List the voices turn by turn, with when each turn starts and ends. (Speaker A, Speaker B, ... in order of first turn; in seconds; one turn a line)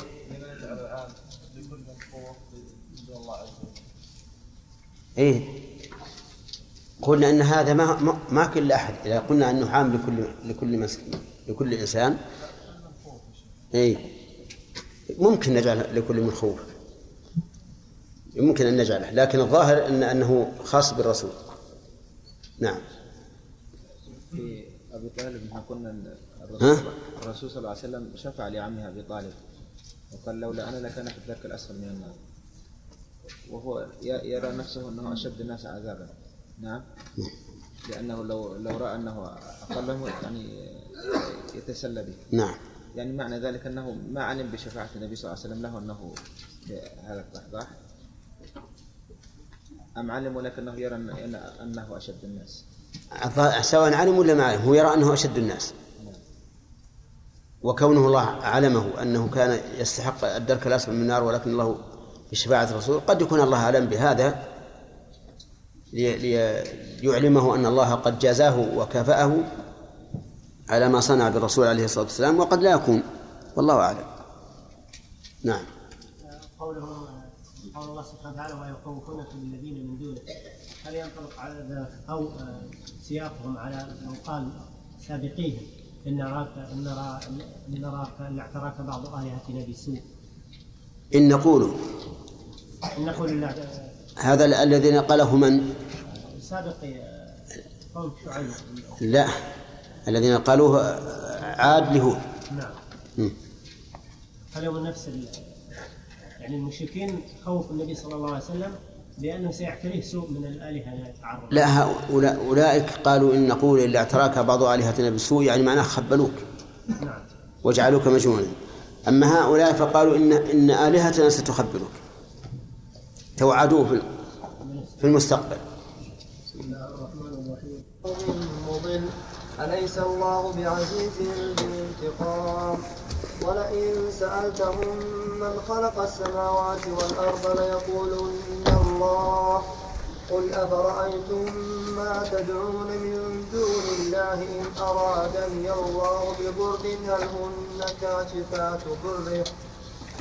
Speaker A: 0.2-3.9
Speaker B: 5.2-5.5
Speaker B: 7.0-12.2
Speaker A: 12.4-13.6
Speaker B: 13.7-14.0
Speaker B: 15.1-16.7
Speaker B: 18.4-21.4
Speaker C: 24.2-29.4
Speaker C: 30.1-32.2
Speaker C: 33.5-36.8
Speaker C: 37.9-42.2
Speaker B: 42.3-42.6
Speaker C: 43.0-47.8
Speaker C: 50.0-52.6
Speaker B: 53.2-55.7
Speaker B: 57.6-64.4
Speaker B: 65.9-69.5
Speaker B: 70.7-73.0
Speaker B: 73.5-74.1
Speaker D: 76.2-90.0
Speaker B: 91.1-91.8
Speaker D: 92.9-93.7
Speaker B: 94.2-95.7
Speaker D: 96.3-99.0
Speaker B: 99.0-99.3
Speaker B: 100.1-102.2
Speaker D: 102.5-102.8
Speaker D: 104.5-105.8
Speaker D: 106.4-111.7
Speaker B: 111.5-116.4
Speaker D: 117.0-117.3
Speaker B: 117.6-118.5
Speaker B: 119.0-122.0
Speaker B: 123.4-124.1
Speaker D: 124.6-124.9
Speaker B: 125.0-125.6
Speaker D: 126.6-127.8
Speaker E: 128.0-132.8
Speaker E: 133.4-139.7
Speaker E: 140.3-149.5